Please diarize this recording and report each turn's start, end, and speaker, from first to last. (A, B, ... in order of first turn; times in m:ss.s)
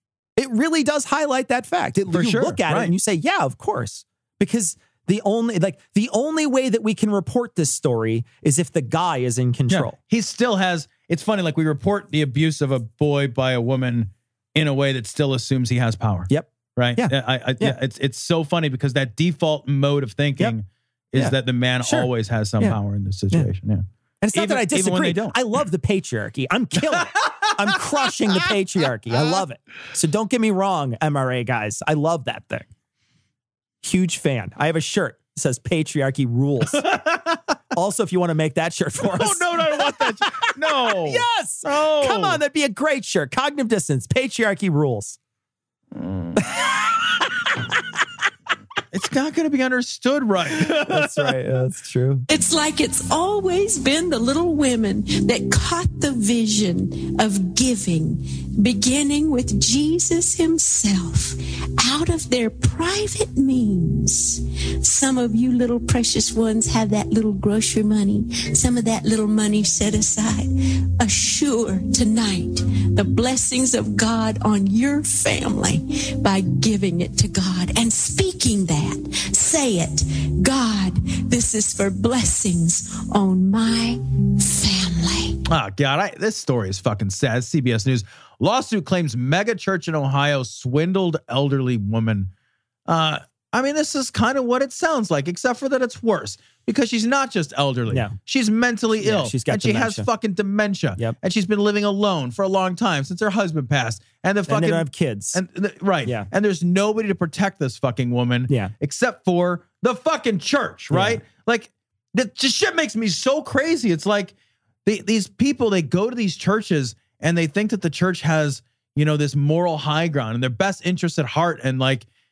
0:00.4-0:10.0 A
0:02.1-0:02.9 B
0:09.7-0:25.4 B
0:16.3-0:17.8 A
0:21.2-0:22.1 A
0:24.2-0:32.7 A
0:26.9-0:27.5 B
0:33.8-0:36.8 A
0:36.7-0:37.4 B
0:37.7-0:40.3 A
0:39.0-0:42.4 B
0:40.9-0:45.2 A
0:46.0-0:46.4 B
0:46.4-0:47.6 A
0:48.9-0:51.4 B
0:50.8-0:52.3 A
0:52.3-1:25.4 C
1:25.5-1:32.3 B
1:32.9-1:54.3 B
1:37.9-1:38.2 A
1:39.0-1:40.1 A
1:44.5-1:45.4 A
1:50.9-1:51.2 A
1:54.8-2:02.0 B